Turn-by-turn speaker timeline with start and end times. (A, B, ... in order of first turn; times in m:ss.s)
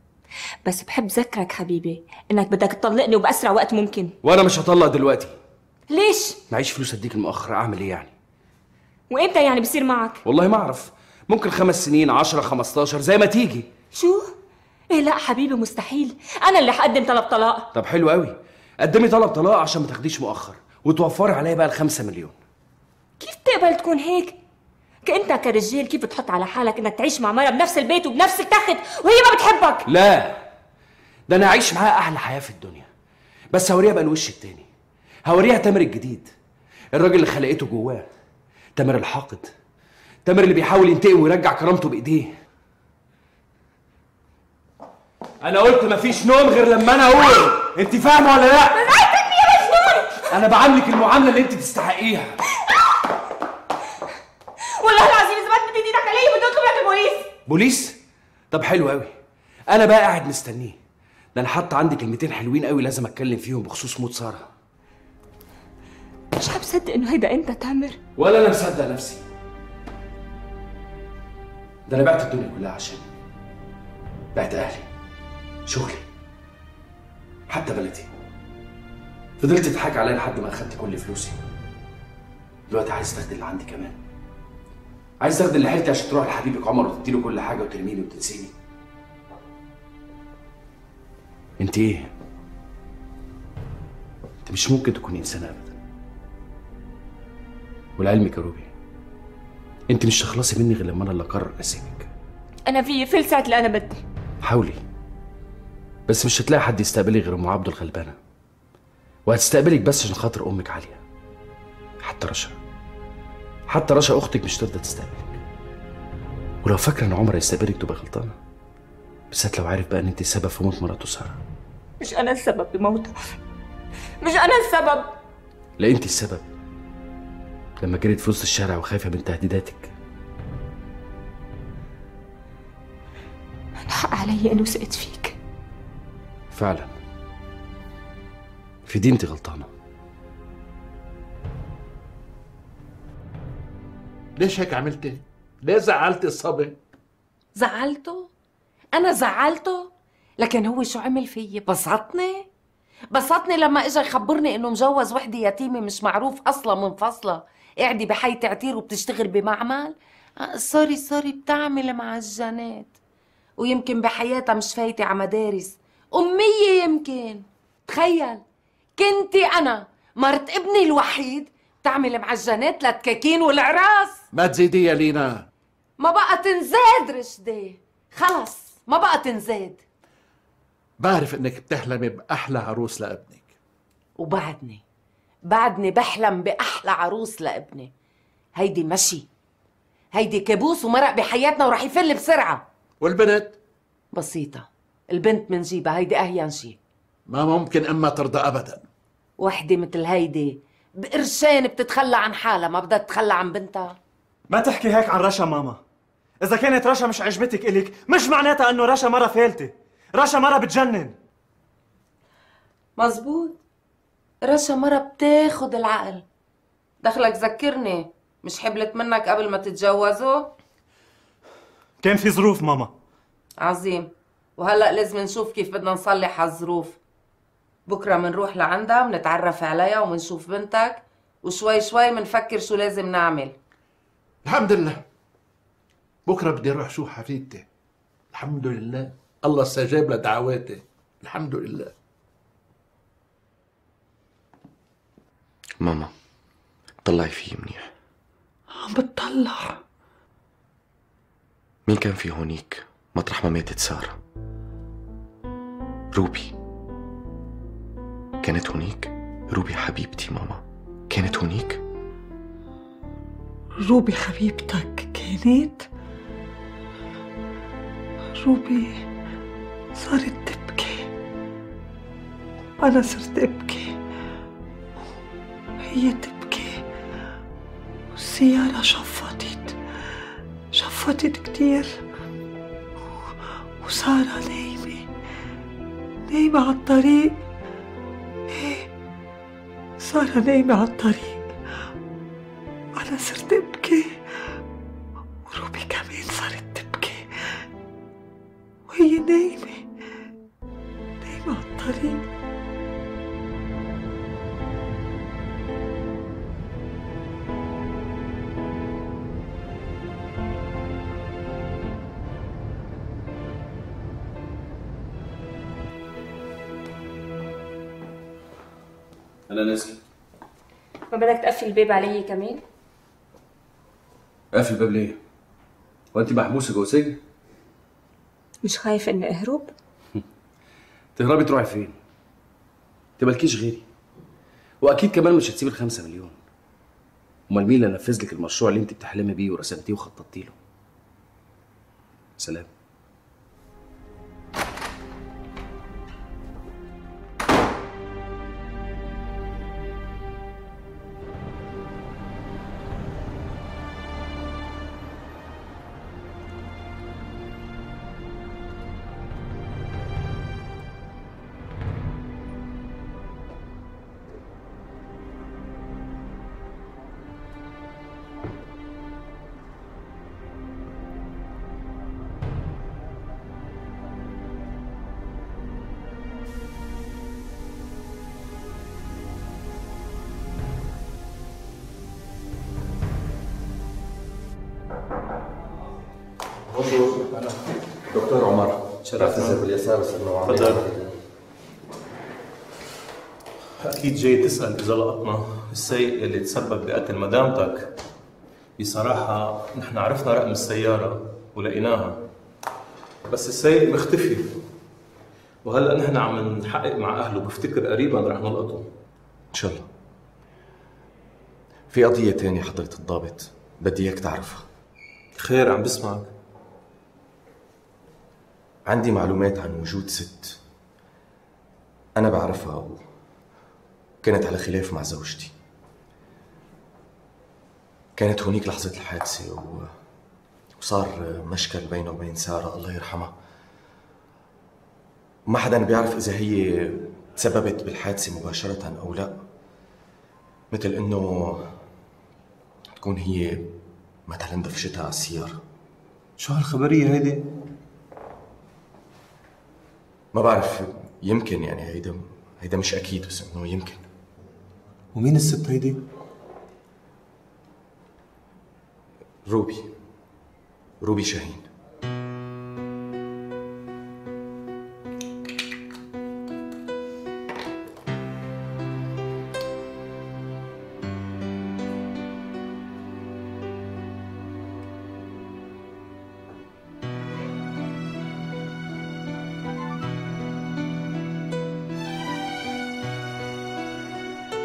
0:00.6-0:04.1 A
0:04.2-0:05.3 B
0:05.9-0:06.4 A
0:06.5-0:08.1 B
0:09.1-0:10.2 A
0:10.2-0:13.7 B
0:13.9-0:14.3 A
0:14.9-0:17.7 A
0:17.7-0:22.4 B
0:23.2-0:24.4 A
0:25.0-0:29.9 A
0:29.9-0:30.4 B
0:31.3-0:32.9 B
0:33.5-0:34.7 B
0:35.3-0:36.3 B
0:36.9-0:38.1 B
0:38.8-0:39.5 B
0:40.2-0:42.4 B
0:45.4-0:48.8 B
0:48.8-0:50.2 A
0:50.3-0:52.4 B
0:54.8-0:57.3 A
0:57.5-0:58.0 B
0:58.5-0:59.1 B
0:59.7-1:00.8 B
1:01.4-1:04.5 B
1:06.4-1:08.0 A
1:08.2-1:09.2 B
1:11.9-1:13.1 B
1:14.4-1:14.9 B
1:15.7-1:16.0 B
1:17.5-1:18.1 B
1:19.4-1:21.4 B
1:22.7-1:24.0 B
1:25.2-1:28.5 B
1:31.6-1:32.1 B
1:34.5-1:35.8 B
1:38.0-1:38.7 B
1:39.9-1:42.1 B
1:42.7-1:44.0 A
1:44.4-1:44.8 B
1:46.1-1:48.2 B
1:49.3-1:51.0 B
1:52.0-1:52.6 B
1:53.7-1:55.4 B
1:56.6-1:58.4 B
1:59.3-2:01.4 B
2:02.0-2:03.4 A
2:04.2-2:05.1 A
2:05.8-2:06.5 B
2:07.8-2:09.9 B
2:13.9-2:15.4 A
2:16.5-2:16.9 B
2:18.9-2:19.7 B
2:24.4-2:26.8 C
2:27.6-2:28.3 D
2:28.9-2:32.5 D
2:33.1-2:42.9 D
2:43.6-2:48.4 D
2:49.0-2:54.2 D
2:54.3-2:55.5 C
2:56.0-2:59.8 D
3:01.0-3:03.5 C
3:04.2-3:04.8 D
3:05.5-3:07.9 D
3:08.6-3:09.3 D
3:10.1-3:12.6 D
3:13.0-3:13.6 C
3:14.1-3:16.8 D
3:17.3-3:18.8 C
3:19.4-3:24.0 D
3:24.5-3:25.8 E
3:26.4-3:31.2 E
3:33.0-3:33.6 D
3:34.4-3:36.3 D
3:37.0-3:40.5 D
3:42.0-3:42.9 E
3:43.6-3:47.0 D
3:47.9-3:53.5 D
3:54.4-3:55.0 C
3:56.3-3:57.6 C
3:58.3-4:01.9 C
4:05.8-4:06.1 F
4:07.0-4:07.9 F
4:08.8-4:09.8 G
4:11.9-4:14.2 F
4:16.1-4:16.5 F
4:18.4-4:21.8 F
4:23.8-4:25.9 G
4:28.4-4:29.0 G
4:30.0-4:31.1 G
4:32.8-4:34.0 G
4:35.8-4:36.8 G
4:38.1-4:39.8 G
4:40.7-4:42.0 G
4:43.8-4:45.1 G
4:46.3-4:47.4 G
4:48.5-4:48.9 G
4:50.0-4:51.6 G
4:53.0-4:54.3 G
4:55.5-4:57.6 G
4:58.9-4:59.9 G
5:01.2-5:02.2 G
5:19.5-5:20.0 B
5:21.1-5:22.6 A
5:24.5-5:25.2 B
5:26.1-5:27.2 B
5:28.6-5:29.7 A
5:31.2-5:32.0 B
5:33.2-5:33.8 B
5:34.8-5:36.4 B
5:37.5-5:40.6 B
5:42.4-5:42.7 B
6:28.1-6:30.9 F
6:29.0-6:29.7 H
6:30.4-6:30.8 H
6:33.8-6:37.9 H
6:38.8-6:42.2 H
6:43.3-6:44.6 H
6:45.6-6:48.9 H
6:49.5-6:49.9 F
6:51.9-6:54.7 F
6:55.4-6:56.3 H
6:58.9-7:00.6 F
7:02.2-7:03.0 F
7:04.2-7:05.5 F
7:08.2-7:09.9 F
7:10.8-7:13.3 F
7:15.5-7:19.4 F
7:20.7-7:21.8 F
7:22.9-7:23.7 F
7:24.3-7:25.6 F
7:26.4-7:27.4 H
7:30.3-7:34.0 F
7:35.2-7:36.0 H
7:39.5-7:39.9 F
7:41.0-7:41.7 F